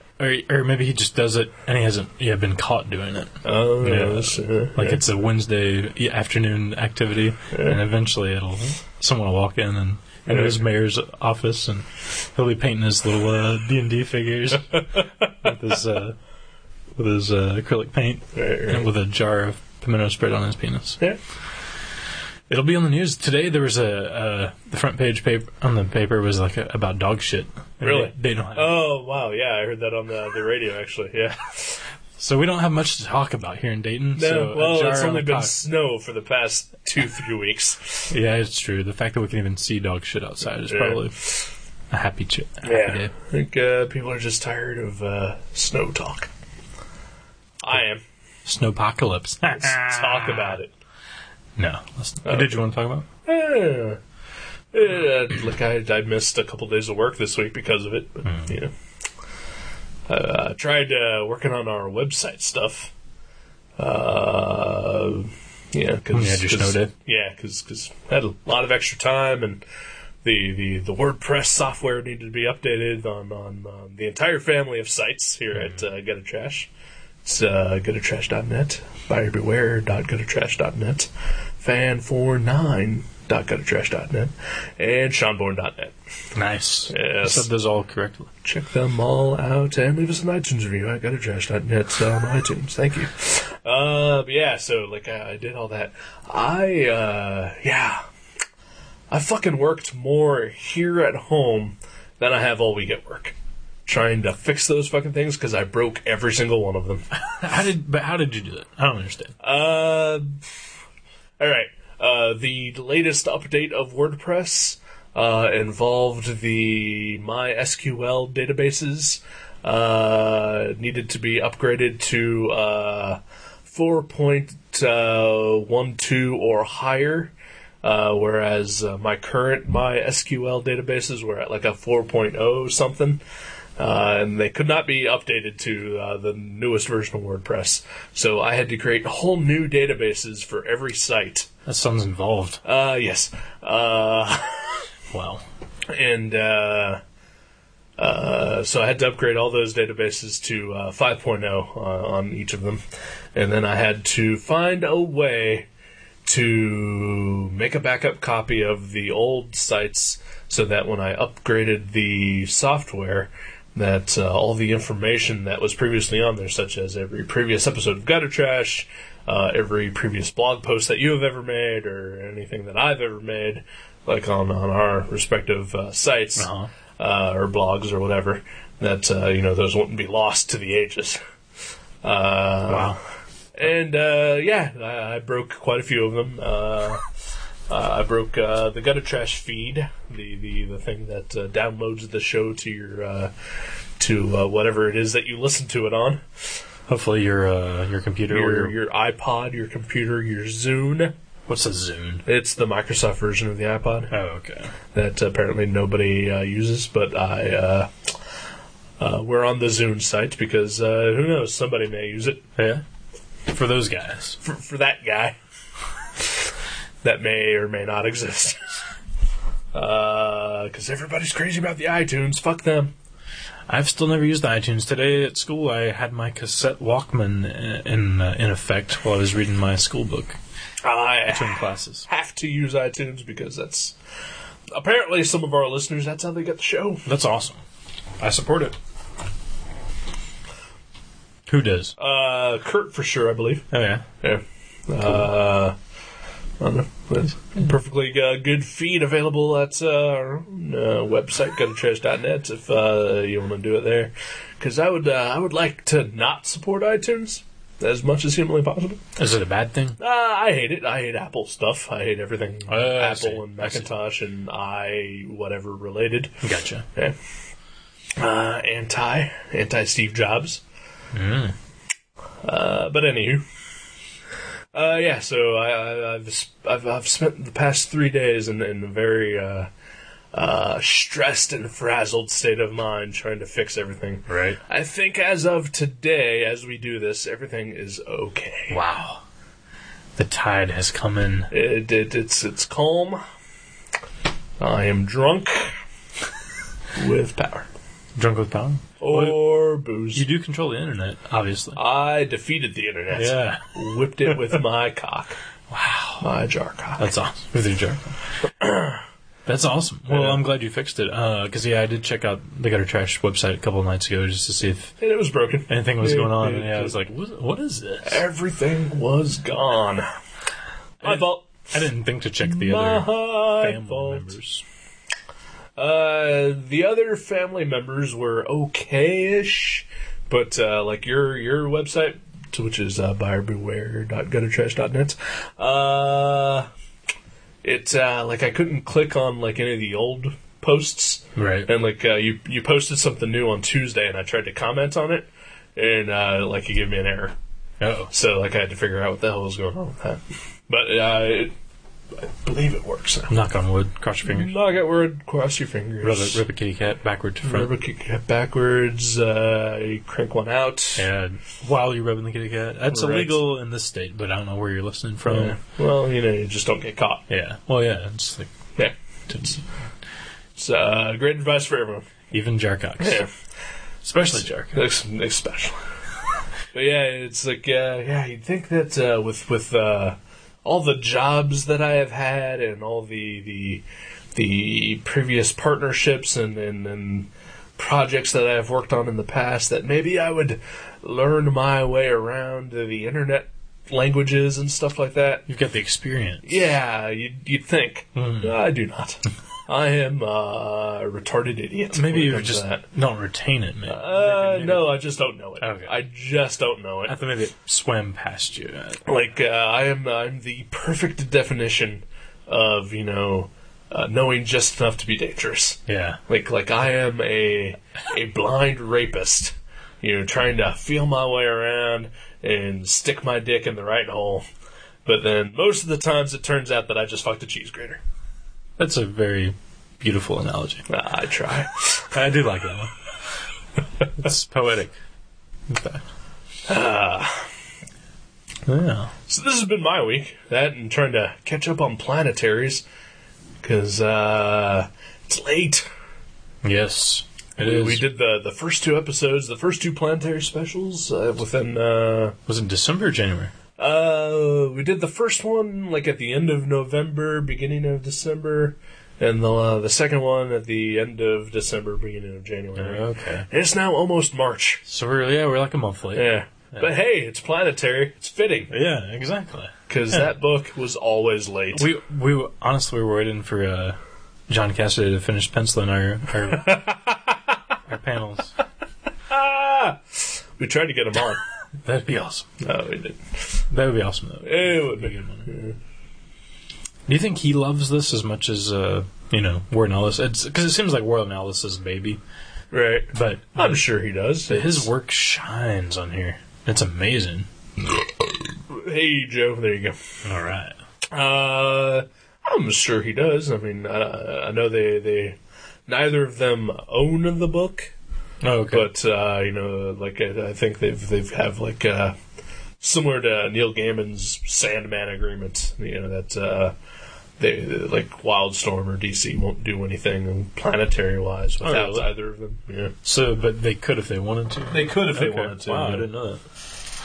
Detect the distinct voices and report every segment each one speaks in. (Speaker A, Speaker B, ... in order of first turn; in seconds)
Speaker A: 0.2-16.2, 16.9-21.0, 22.5-28.7, 32.2-35.5, 38.1-41.2, 41.9-43.1, 48.4-50.6, 51.6-53.1, 58.2-58.5, 66.1-66.9, 86.3-88.3, 107.1-109.3, 141.7-142.6, 145.1-145.4, 176.4-176.7, 182.7-183.0, 196.9-198.7, 201.5-202.2, 204.1-204.7, 212.6-212.8, 213.5-214.4, 223.7-230.4, 231.3-232.1, 237.1-237.6, 238.2-238.7, 241.5-241.9, 243.7-244.0, 259.1-260.0, 262.7-263.9, 266.4-266.9, 271.1-271.5, 284.3-284.6, 288.7-289.2, 290.1-291.5, 298.1-299.4, 300.1-301.8, 303.1-303.6, 305.7-306.2, 307.0-308.2, 309.4-315.0, 315.7-318.2, 321.0-324.6, 341.4-341.7, 347.8-348.1, 353.3-354.5, 356.0-357.7, 360.9-365.6, 367.3-368.5, 369.3-369.6, 372.3-373.2, 374.0-374.8, 395.5-396.7, 398.1-398.6, 401.9-405.0, 405.6-405.9, 407.1-409.0, 415.9-416.2, 428.8-430.8, 432.1-432.9, 434.1-434.9, 435.7-436.0, 438.6-439.1, 446.6-448.0, 452.5-453.5, 462.8-463.5, 464.9-466.9, 468.7-470.2, 471.7-474.0, 474.5-476.8, 477.9-478.5, 481.8-482.5, 483.7-485.5, 487.1-492.2, 493.1-493.8, 494.5-497.5, 500.2-500.8, 508.4-508.9, 521.6-522.1, 523.0-526.4
Speaker B: 3.4-5.0, 7.5-7.8, 10.2-10.6, 15.0-15.2, 18.3-18.9, 27.8-31.8, 34.1-38.1, 40.7-41.5, 42.6-46.3, 47.6-48.0, 49.6-50.7, 52.2-52.5, 53.2-54.0, 54.7-58.7, 60.1-62.9, 63.8-69.6, 70.2-76.7, 77.2-81.1, 81.6-85.9, 86.9-87.5, 88.4-98.0, 99.1-103.3, 103.8-107.0, 109.4-110.4, 111.4-133.2, 133.8-141.5, 142.6-144.8, 145.9-147.0, 148.0-152.8, 153.3-155.7, 156.2-181.2, 182.0-182.9, 183.5-187.0, 187.7-193.3, 194.0-196.6, 198.3-201.1, 202.2-204.1, 204.9-207.9, 209.0-212.4, 214.4-215.3, 217.0-218.6, 219.7-222.9, 230.8-233.9, 234.7-237.1, 242.0-243.7, 244.2-245.8, 246.6-259.0, 260.0-266.4, 268.2-270.6, 272.4-273.4, 274.7-279.7, 280.3-288.8, 291.5-293.2, 294.6-295.7, 296.9-297.7, 299.0-300.2, 301.8-305.4, 306.2-307.1, 308.6-309.0, 310.1-310.4, 315.0-317.0, 318.0-320.1, 321.0-321.5, 322.4-324.3, 325.8-336.7, 337.6-347.4, 348.1-351.5, 352.2-353.3, 354.2-356.4, 357.4-361.1, 362.9-363.4, 365.2-367.2, 370.6-372.1, 373.0-373.3, 374.7-375.8, 376.7-383.8, 384.3-395.4, 396.4-402.8, 403.9-407.1, 409.1-424.4, 425.1-428.0, 430.9-432.1, 436.6-437.5, 439.3-442.8, 443.6-445.9, 447.6-452.4, 453.8-464.8, 466.1-468.7, 469.9-471.9, 476.6-477.3, 479.3-481.4, 482.6-483.2, 484.4-485.8, 492.7-494.9, 498.7-500.0, 501.1-507.9, 508.7-512.1, 512.8-516.7, 517.4-522.9, 524.7-526.1